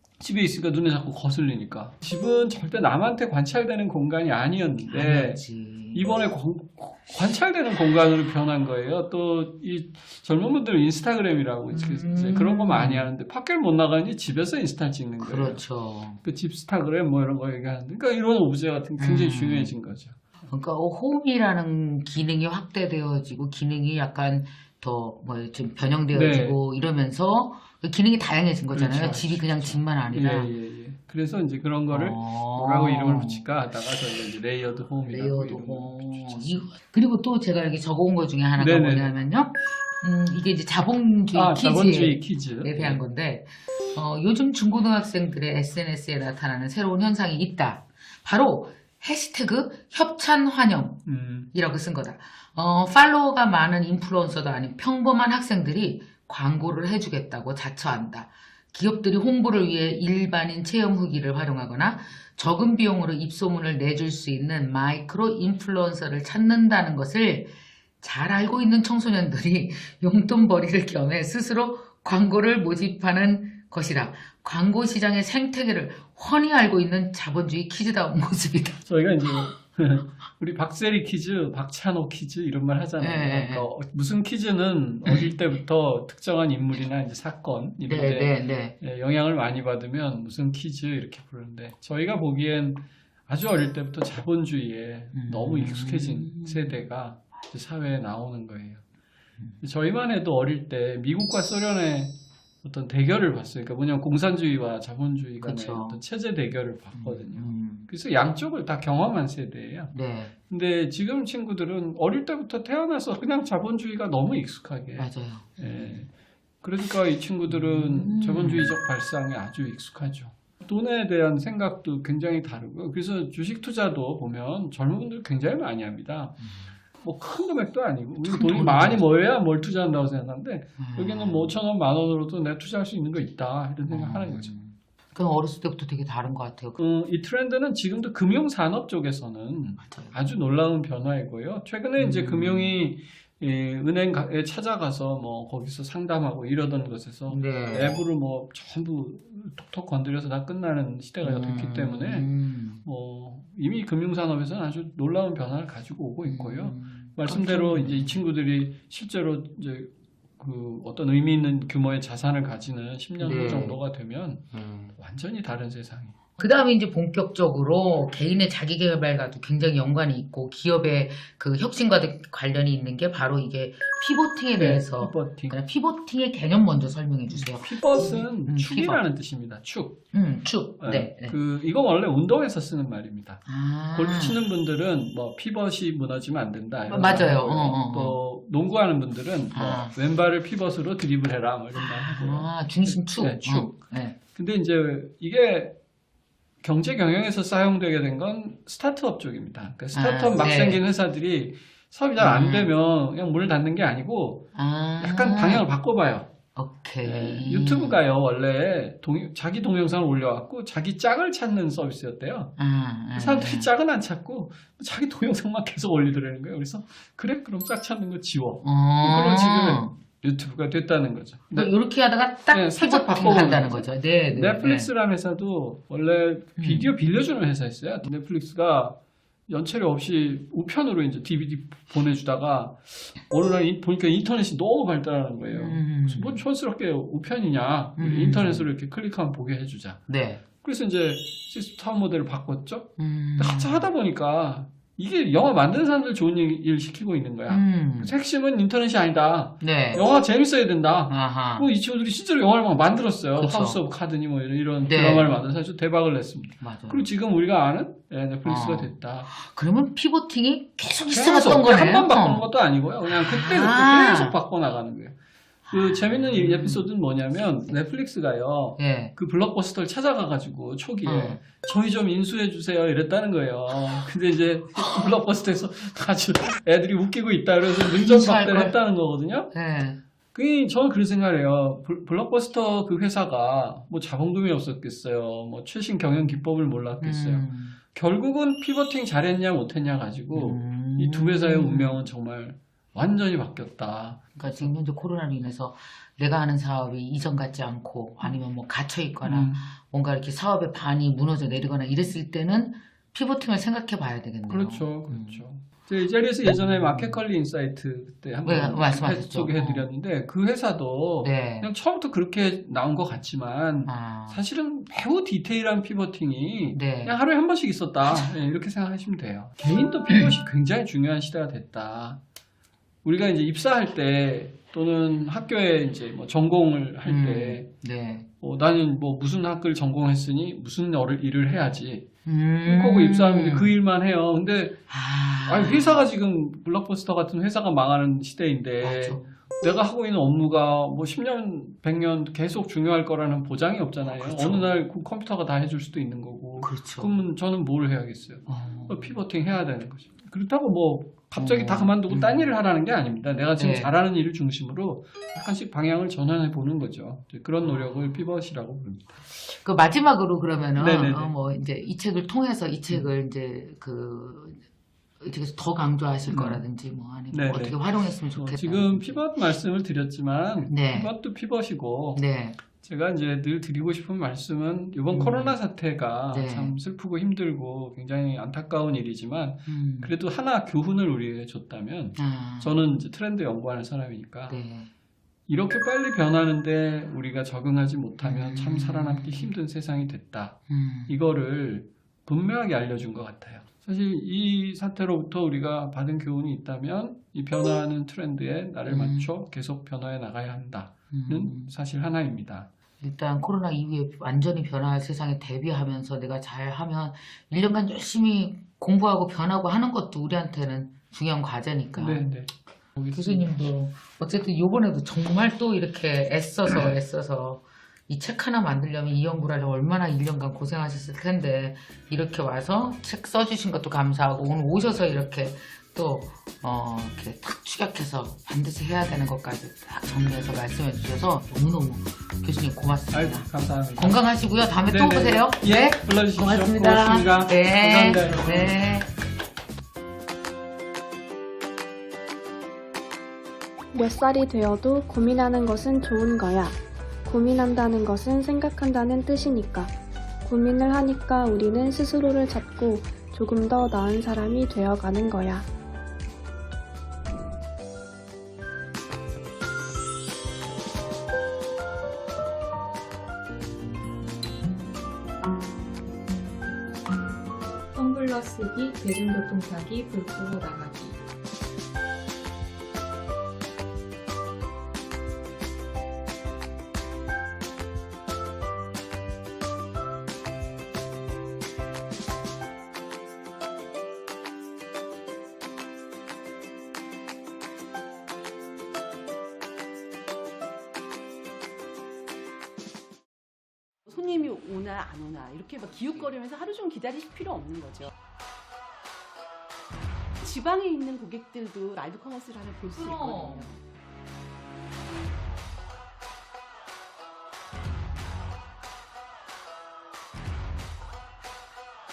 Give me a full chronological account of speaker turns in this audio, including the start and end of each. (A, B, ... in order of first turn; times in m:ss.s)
0:00.2-0:05.4 A
0:04.9-0:06.0 B
0:05.9-0:15.6 A
0:11.7-0:13.1 B
0:15.2-0:16.2 B
0:16.2-0:20.2 A
0:19.0-0:19.7 B
0:20.5-0:30.5 B
0:26.1-0:26.6 A
0:28.7-0:36.7 A
0:31.9-0:33.4 B
0:35.1-0:51.0 B
0:38.6-0:39.1 A
0:41.3-0:43.0 A
0:51.0-0:51.5 A
0:51.5-1:18.8 B
1:18.8-1:38.8 A
1:23.0-1:23.7 B
1:27.8-1:28.8 B
1:35.1-1:36.8 B
1:39.6-1:49.9 A
1:45.4-1:46.0 B
1:47.0-1:47.9 B
1:49.9-1:50.3 B
1:50.5-1:56.1 A
1:55.0-1:56.0 B
1:56.6-2:06.4 A
1:57.5-1:58.7 B
2:06.4-2:06.7 B
2:07.0-2:14.5 A
2:08.2-2:09.0 B
2:10.8-2:11.5 B
2:13.9-2:16.8 B
2:16.8-2:32.3 A
2:19.8-2:20.1 B
2:22.0-2:22.8 B
2:27.3-2:28.0 B
2:31.2-2:32.8 B
2:32.8-2:44.4 A
2:36.2-2:38.2 B
2:43.2-2:43.8 B
2:44.5-2:44.9 B
2:45.0-2:46.2 A
2:46.4-2:59.0 B
2:54.6-2:55.6 A
2:57.3-3:00.0 A
3:00.1-3:01.4 B
3:00.8-3:03.4 A
3:03.5-3:04.4 B
3:03.9-3:13.7 A
3:06.9-3:08.2 B
3:09.5-3:10.0 B
3:11.8-3:14.2 B
3:14.4-3:15.7 A
3:16.6-3:24.5 A
3:19.9-3:20.8 B
3:22.2-3:22.7 B
3:24.5-3:25.6 B
3:25.0-3:26.3 A
3:26.6-3:28.0 B
3:27.0-3:32.5 A
3:32.6-3:33.7 B
3:33.1-3:41.7 A
3:38.6-3:39.9 B
3:41.5-3:44.9 B
3:42.5-3:49.0 A
3:46.6-3:46.9 B
3:49.5-4:00.0 A
3:55.5-3:56.4 B
3:58.0-3:58.7 B
4:00.1-4:00.4 B
4:00.6-4:19.3 A
4:03.0-4:03.9 B
4:07.5-4:08.1 B
4:09.6-4:10.0 B
4:11.1-4:11.7 B
4:13.4-4:13.8 B
4:14.8-4:15.3 B
4:16.6-4:17.1 B
4:18.4-4:22.5 B
4:21.1-4:25.2 A
4:23.0-4:24.4 B
4:25.7-4:26.9 B
4:25.7-4:39.5 A
4:28.8-4:29.1 B
4:31.0-4:31.4 B
4:37.8-4:38.8 B
4:39.5-4:40.0 B
4:40.3-4:54.7 A
4:47.0-4:47.8 B
4:50.3-4:52.0 B
4:54.4-5:05.4 B
4:59.2-4:59.7 A
5:04.5-5:22.2 A
5:06.5-5:07.2 B
5:08.4-5:09.8 B
5:11.2-5:11.7 B
5:13.8-5:14.4 B
5:16.7-5:17.2 B
5:23.0-5:27.7 A
5:27.0-5:28.3 B
5:28.4-5:32.0 A
5:32.2-5:33.7 B
5:32.6-5:34.8 A
5:34.9-5:36.0 B
5:35.5-5:59.1 A
5:38.8-5:39.3 B
5:44.0-5:44.7 B
5:46.6-5:47.2 B
5:48.5-5:49.1 B
5:51.4-5:52.5 B
5:53.6-5:53.9 B
5:57.6-5:58.2 B
5:59.5-6:04.6 B
6:00.8-6:01.3 A
6:05.2-6:09.2 B
6:06.3-6:06.6 A
6:07.3-6:07.8 A
6:08.3-6:24.6 A
6:10.7-6:11.1 B
6:12.1-6:12.6 B
6:15.1-6:15.6 B
6:16.3-6:16.8 B
6:19.7-6:20.1 B
6:22.2-6:22.7 B
6:24.5-6:24.9 B
6:25.5-6:42.7 A
6:28.2-6:29.5 B
6:30.7-6:31.1 B
6:38.9-6:39.3 B
6:41.1-6:41.7 B
6:43.0-6:52.3 B
6:52.0-6:53.5 A
6:53.1-7:19.1 B
7:13.1-7:14.2 A
7:14.8-7:18.8 A
7:23.9-7:29.9 C
7:30.4-7:35.6 C
7:47.9-7:51.2 D
8:14.1-8:18.1 E
8:20.4-8:23.8 E
8:22.9-8:23.7 B